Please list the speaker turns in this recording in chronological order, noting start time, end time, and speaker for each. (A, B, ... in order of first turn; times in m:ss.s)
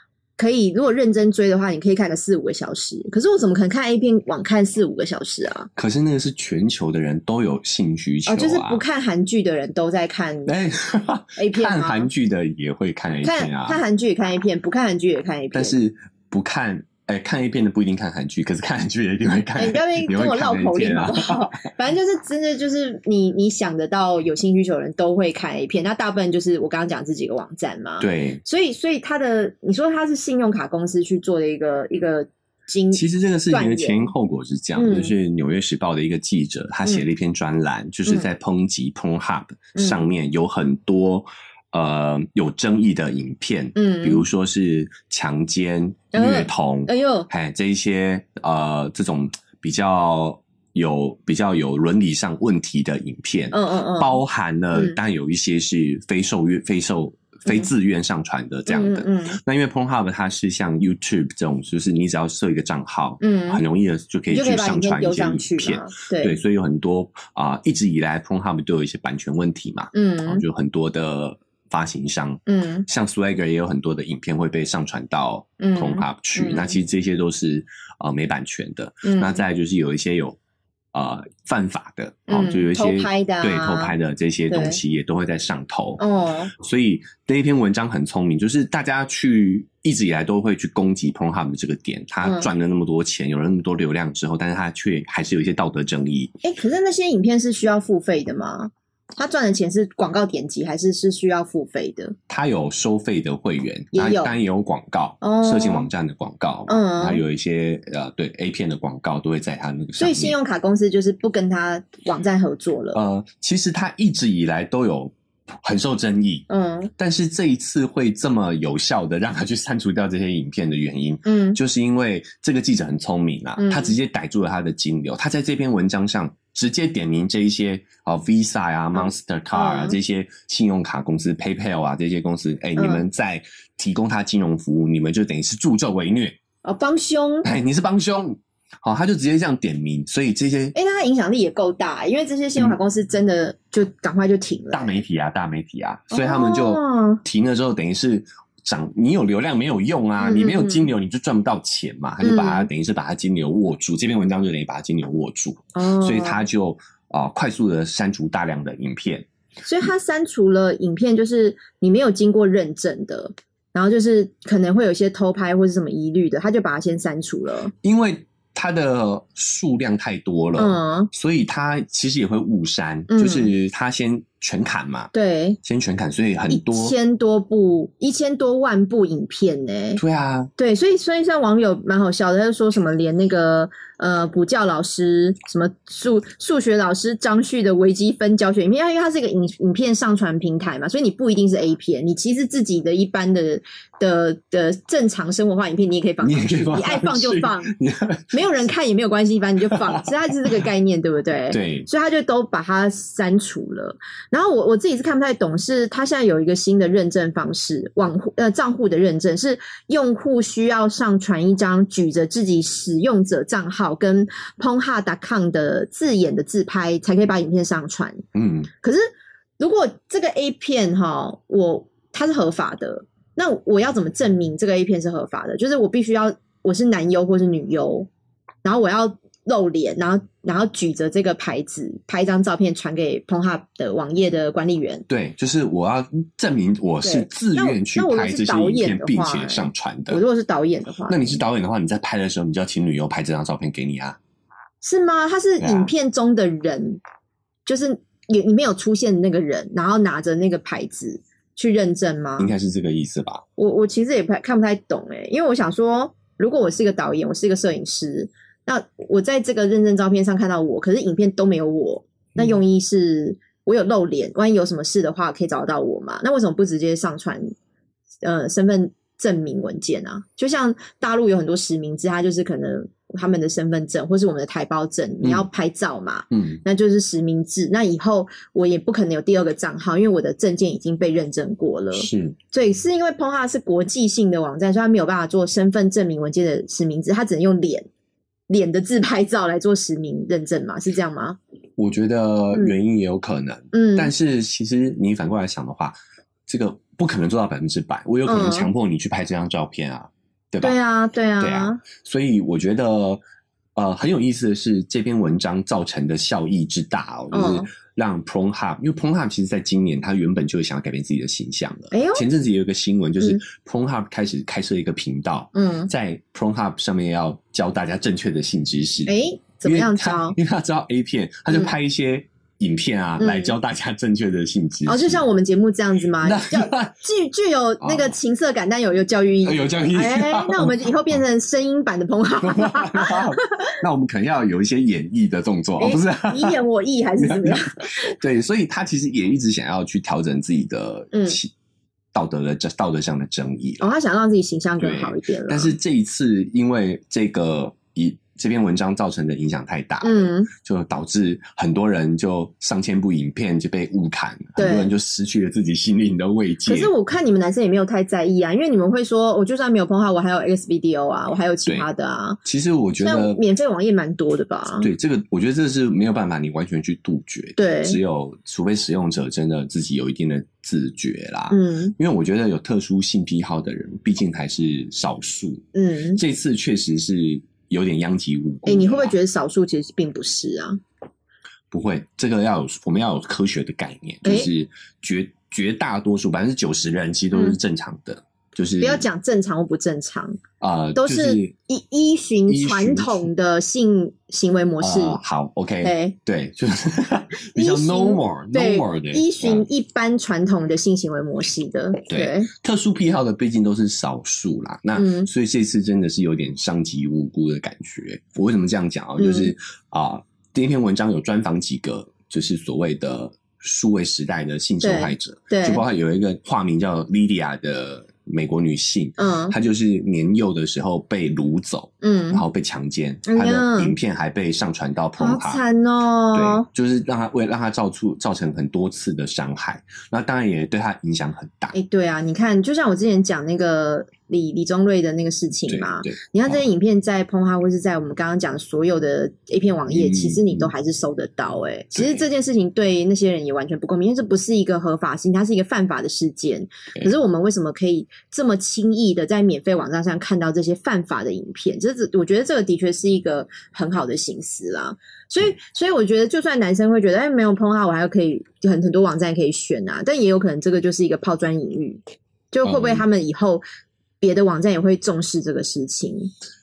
0:00.4-0:05.7 A
0:05.8-0:08.8 B
0:08.3-0:10.5 A
0:10.5-0:13.8 B
0:11.4-0:12.1 A
0:13.2-0:15.8 A
0:15.5-0:21.6 B
0:19.6-0:34.1 A
0:28.0-0:28.4 B
0:32.9-1:20.4 B
0:34.8-0:35.1 A
0:39.8-0:40.1 A
0:43.8-0:44.2 A
0:46.1-0:47.3 A
0:53.5-0:54.2 A
0:58.7-0:59.4 A
1:03.2-1:03.6 A
1:04.3-1:06.4 A
1:09.9-1:10.4 A
1:12.5-1:12.9 A
1:15.6-1:16.8 A
1:19.0-1:19.4 A
1:20.9-1:26.0 B
1:22.3-1:23.9 A
1:24.5-1:24.8 A
1:26.0-1:26.5 A
1:26.6-1:36.4 B
1:32.2-1:32.5 A
1:36.4-1:42.2 A
1:42.3-1:50.4 B
1:43.9-1:44.4 A
1:45.2-1:45.9 A
1:46.7-1:47.2 A
1:50.0-1:53.0 A
1:52.9-1:56.5 B
1:56.5-1:56.9 A
1:57.0-2:16.4 B
2:01.2-2:01.6 A
2:03.6-2:04.0 A
2:08.9-2:10.0 A
2:12.8-2:13.1 A
2:16.6-2:17.5 A
2:17.4-2:20.8 B
2:20.8-2:25.0 A
2:24.7-2:39.3 B
2:26.1-2:27.2 A
2:30.2-2:30.9 A
2:32.2-2:32.7 A
2:35.8-2:36.4 A
2:39.6-2:47.7 A
2:47.8-2:55.1 B
2:50.6-2:51.1 A
2:53.1-2:53.5 A
2:55.1-2:55.6 A
2:55.6-2:57.0 B
2:56.5-3:00.0 A
3:00.0-3:00.5 B
3:00.6-3:17.7 A
3:16.2-3:18.5 B
3:18.3-3:38.2 A
3:19.7-3:20.1 B
3:21.5-3:21.9 B
3:38.4-3:38.7 B
3:39.6-3:48.1 A
3:48.6-3:55.0 A
3:55.1-4:00.2 B
3:57.0-4:01.4 A
4:01.1-4:04.2 B
4:04.8-4:07.0 A
4:05.6-4:05.9 B
4:07.7-4:12.5 A
4:12.4-4:13.4 B
4:13.6-4:27.5 A
4:28.2-4:47.9 A
4:36.3-4:36.6 B
4:41.9-4:42.4 B
4:48.5-4:51.4 A
4:51.8-4:56.0 B
4:53.7-4:54.1 A
4:56.5-5:00.8 B
4:58.3-4:58.7 A
5:00.6-5:01.8 A
5:01.4-5:03.2 B
5:03.8-5:19.1 B
5:07.3-5:07.7 A
5:11.9-5:12.3 A
5:15.6-5:15.9 A
5:19.1-5:20.4 A
5:19.6-5:25.2 B
5:23.2-5:23.6 A
5:24.9-5:33.7 A
5:26.2-5:27.0 B
5:27.8-5:28.2 B
5:29.4-5:31.2 B
5:32.4-5:36.6 B
5:35.8-5:38.1 A
5:37.2-5:41.5 B
5:41.1-5:41.4 A
5:42.1-5:43.8 B
5:43.8-5:45.7 A
5:44.8-5:56.9 B
5:50.0-5:50.5 A
5:54.6-5:54.9 A
5:56.7-6:02.4 A
6:02.4-6:03.4 B
6:03.0-6:04.9 A
6:04.8-6:19.2 B
6:07.6-6:08.0 A
6:11.5-6:12.0 A
6:15.7-6:16.2 A
6:18.7-6:20.8 A
6:21.7-6:29.0 B
6:28.8-6:30.4 A
6:30.6-6:31.5 B
6:31.0-6:35.2 A
6:32.5-6:33.3 B
6:34.8-6:39.7 B
6:35.8-6:36.2 A
6:37.5-6:42.5 A
6:42.1-7:05.6 B
6:45.0-6:45.3 A
6:49.2-6:49.5 A
6:54.8-6:55.8 A
6:59.2-6:59.6 A
7:02.0-7:02.4 A
7:03.3-7:04.0 A
7:05.2-7:06.7 A
7:06.3-7:11.8 B
7:11.7-7:42.0 A
7:15.7-7:16.6 B
7:19.9-7:20.7 B
7:21.9-7:22.2 B
7:42.5-7:43.6 A
7:42.6-7:43.0 B
7:44.2-7:46.3 A